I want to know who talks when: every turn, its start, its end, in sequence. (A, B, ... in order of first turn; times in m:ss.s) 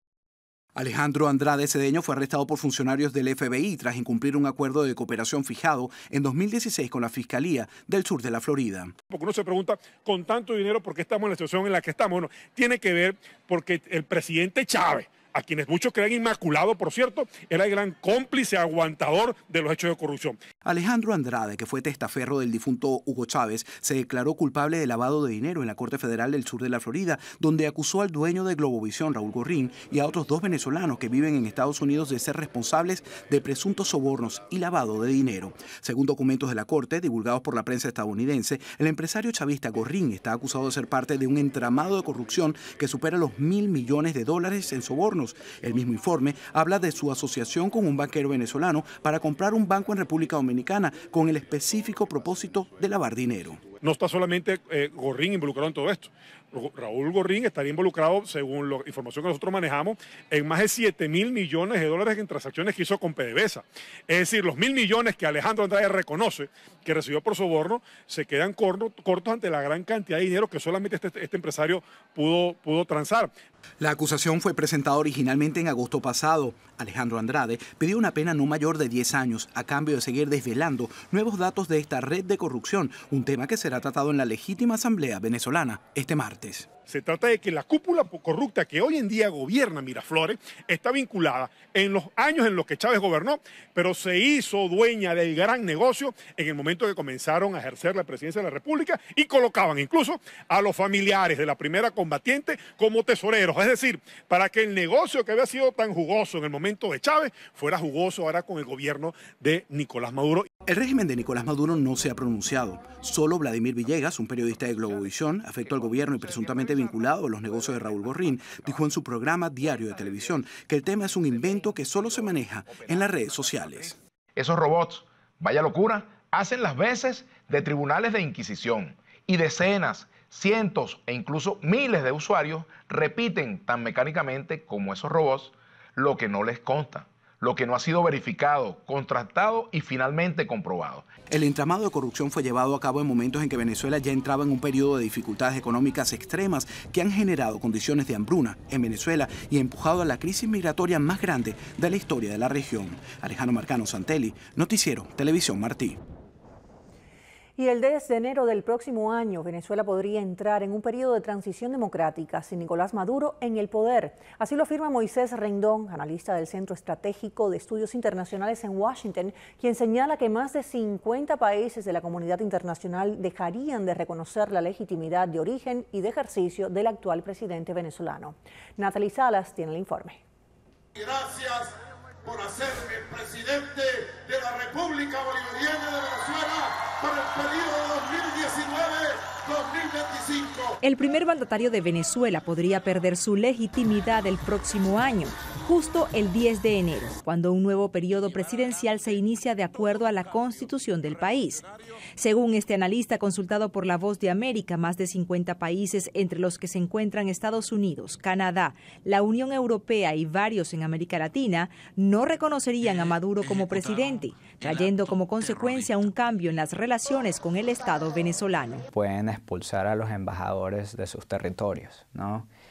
0:00.8-0:08.9 A
0:09.1-0:20.4 B
0:20.6-0:53.7 A
0:53.8-1:13.3 B
1:13.8-1:26.7 A
1:26.8-1:50.5 B
1:50.6-2:04.0 A
2:04.4-2:21.1 C
2:21.3-2:36.0 A
2:37.6-3:00.2 D
3:01.0-3:10.7 E
3:10.8-3:21.6 F
3:22.2-3:38.8 F
3:38.9-3:42.5 G